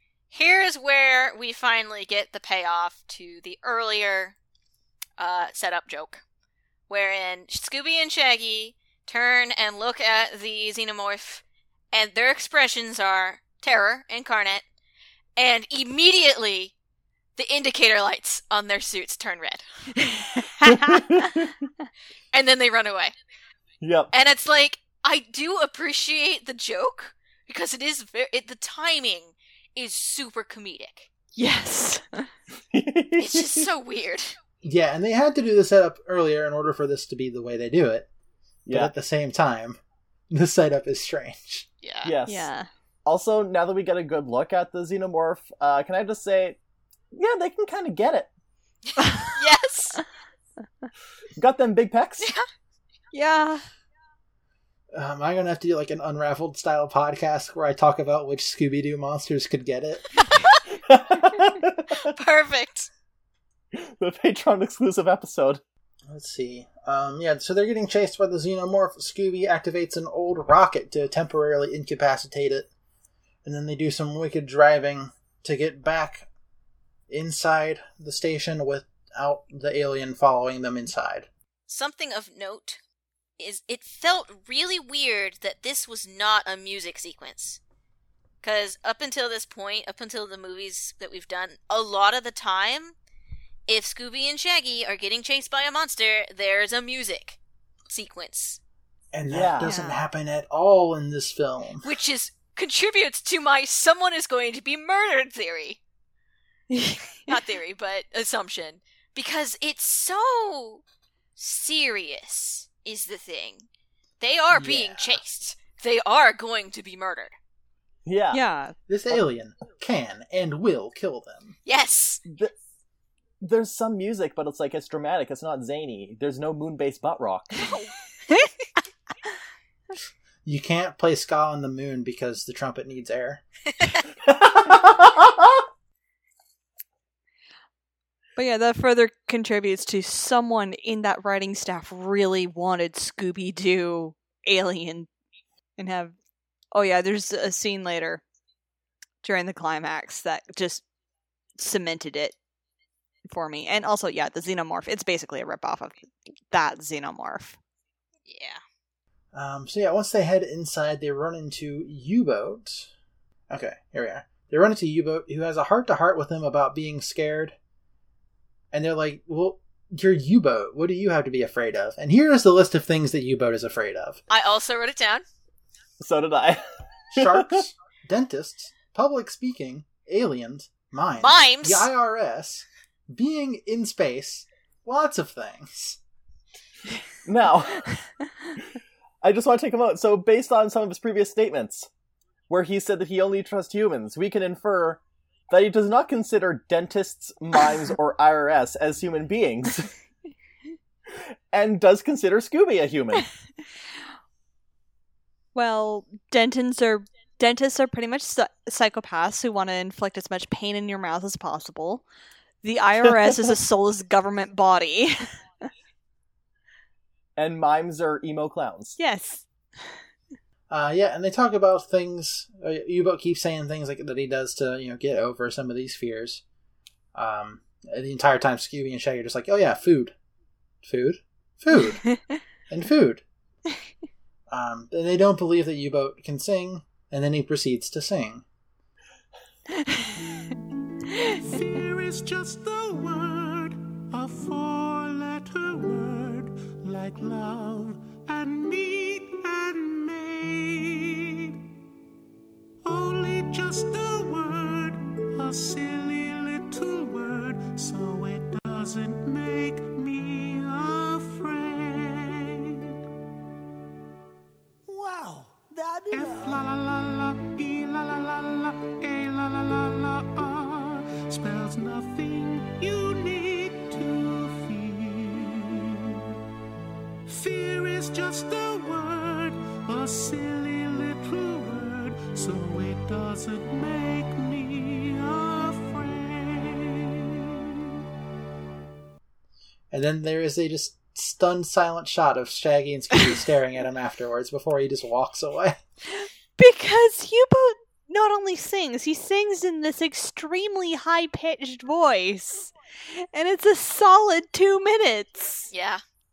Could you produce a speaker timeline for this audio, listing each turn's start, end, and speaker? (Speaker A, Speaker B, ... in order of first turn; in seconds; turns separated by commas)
Speaker A: 0.3-4.3, Speaker A: 5.2-6.2, Speaker A: 6.9-14.6, Speaker A: 15.4-16.7, Speaker A: 17.4-19.6, Speaker B: 20.0-21.2, Speaker C: 20.6-21.5, Speaker A: 22.3-23.1, Speaker C: 23.8-24.1, Speaker A: 24.1-31.1, Speaker B: 31.4-32.3, Speaker C: 32.7-33.6, Speaker A: 33.2-34.4, Speaker D: 34.6-38.1, Speaker C: 38.6-38.9, Speaker D: 38.7-39.8, Speaker D: 40.3-41.7, Speaker A: 41.8-42.1, Speaker C: 42.0-42.5, Speaker B: 42.3-42.7, Speaker C: 43.0-46.6, Speaker C: 47.1-48.3, Speaker B: 49.0-49.3, Speaker A: 49.2-50.0, Speaker C: 51.4-52.3, Speaker A: 52.2-52.5, Speaker B: 53.1-53.7, Speaker D: 54.9-60.1, Speaker A: 60.2-60.6, Speaker C: 60.9-62.0, Speaker A: 61.9-62.9, Speaker C: 63.7-65.6, Speaker D: 66.1-72.7, Speaker D: 73.4-76.3, Speaker D: 77.1-81.3, Speaker A: 81.7-82.8, Speaker A: 83.4-87.6, Speaker A: 88.4-93.0, Speaker A: 93.7-97.4, Speaker A: 97.9-98.6, Speaker D: 99.1-101.9, Speaker C: 99.3-99.7, Speaker B: 99.6-100.0, Speaker A: 101.8-105.8, Speaker B: 106.7-107.3, Speaker A: 107.3-110.8, Speaker A: 111.4-113.7, Speaker A: 114.2-117.3, Speaker D: 114.5-115.2, Speaker C: 118.0-118.4, Speaker B: 118.3-118.7, Speaker D: 118.9-121.6, Speaker A: 121.6-122.2, Speaker C: 122.2-122.5, Speaker C: 123.4-127.8, Speaker D: 130.4-133.4, Speaker C: 134.2-135.6, Speaker B: 138.4-145.1, Speaker B: 145.8-146.1, Speaker B: 146.7-148.2, Speaker B: 149.2-150.8, Speaker B: 151.6-152.3, Speaker B: 153.2-157.6, Speaker A: 158.3-158.6, Speaker D: 159.3-162.9, Speaker D: 163.5-167.6, Speaker D: 168.7-174.2, Speaker A: 174.3-175.2, Speaker C: 176.0-176.6, Speaker D: 177.1-186.0, Speaker C: 177.1-177.6, Speaker A: 181.2-181.9, Speaker C: 187.2-187.9, Speaker C: 189.2-191.9, Speaker C: 192.5-199.9, Speaker C: 201.5-203.3, Speaker B: 205.5-212.0, Speaker B: 212.6-215.2, Speaker C: 217.4-219.0, Speaker B: 219.0-219.9, Speaker D: 220.7-226.4, Speaker D: 227.1-230.1, Speaker D: 230.8-232.1, Speaker D: 232.7-233.2, Speaker D: 234.5-238.4, Speaker E: 241.1-251.6, Speaker E: 252.8-262.9, Speaker E: 264.9-275.9, Speaker E: 277.3-287.4, Speaker D: 289.9-295.8, Speaker B: 296.2-305.7, Speaker A: 305.7-306.0